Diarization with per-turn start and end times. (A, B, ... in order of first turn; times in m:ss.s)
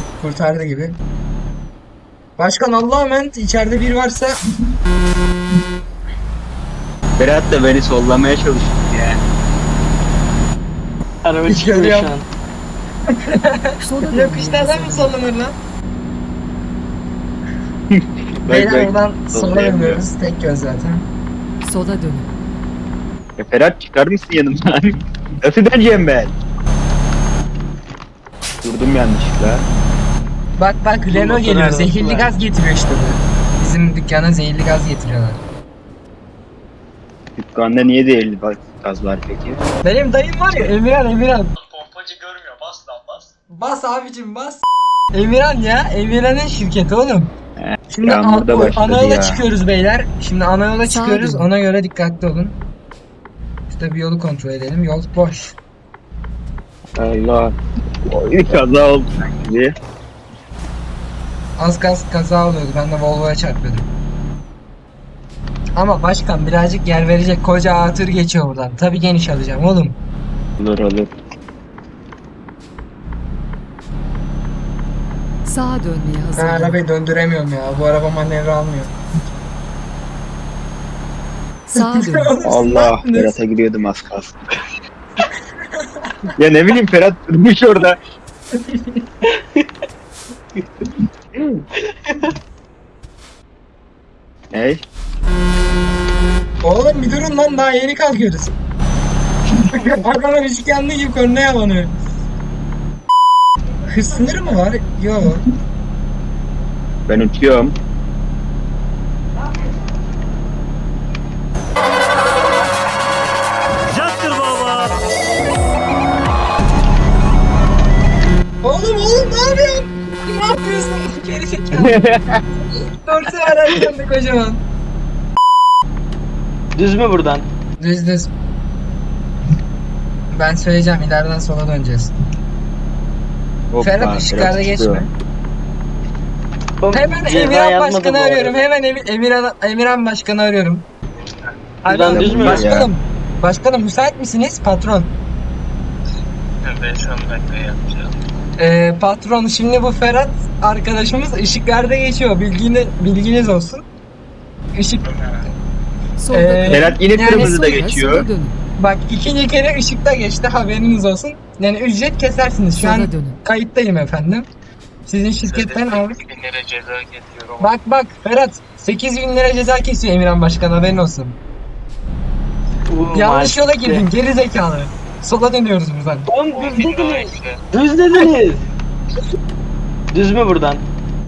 0:00.2-0:01.0 A
0:02.4-0:04.4 A
0:07.2-0:09.2 B
0:11.2-0:12.2 C
0:11.5-0:12.1 A
0:13.1-0:15.5 A
0:13.8-0:15.2 D
0:17.9-0:20.0 B
0:18.5-0:21.0 A
0:21.6-0:22.3 D
0:23.4-0:26.3 B
0:28.6-0:29.6 B
0:30.6-0:35.4 A
0:31.1-0:32.4 C
0:37.4-0:39.6 B
0:39.8-0:41.5 A
0:41.6-0:43.3 E
0:43.5-0:47.3 A
0:47.6-0:49.4 B
0:47.9-0:52.5 A
0:50.8-0:51.5 D
0:53.7-0:55.5 A
0:57.0-0:57.5 B
0:58.0-0:59.7 B
1:01.6-1:03.9 A
1:05.8-1:09.9 A
1:10.6-1:11.1 B
1:15.4-1:16.8 D
1:16.4-1:18.9 A
1:21.7-1:22.3 D
1:21.7-1:23.4 A
1:22.4-1:24.4 B
1:26.4-1:28.0 B
1:28.7-1:29.0 A
1:29.2-1:29.6 C
1:31.9-1:32.3 C
1:34.5-1:34.8 B
1:36.6-1:38.5 A
1:39.7-1:41.9 A
1:43.9-1:45.4 A
1:47.1-1:47.8 B
1:54.1-1:54.7 D
1:58.6-2:02.0 A
2:01.7-2:02.4 B
2:02.6-2:04.6 A
2:06.8-2:07.5 C
2:07.8-2:08.3 A
2:10.3-2:12.1 A
2:13.7-2:15.1 B
2:13.8-2:15.1 A
2:16.8-2:18.6 C
2:16.9-2:20.8 A
2:21.8-2:25.1 A
2:21.8-2:22.6 C
2:22.1-2:22.9 B
2:26.6-2:28.1 E
2:28.6-2:33.8 A
2:34.8-2:35.5 A
2:35.1-2:35.4 E
2:36.2-2:38.6 D
2:36.3-2:37.7 A
2:36.7-2:38.2 B
2:38.8-2:44.5 A
2:42.7-2:43.4 D
2:45.0-2:46.2 A
2:45.4-2:47.7 E
2:47.6-2:51.4 A
2:52.9-2:54.0 C
2:53.1-2:56.3 A
2:56.3-2:58.6 C
2:56.5-2:57.6 E
3:00.1-3:00.8 C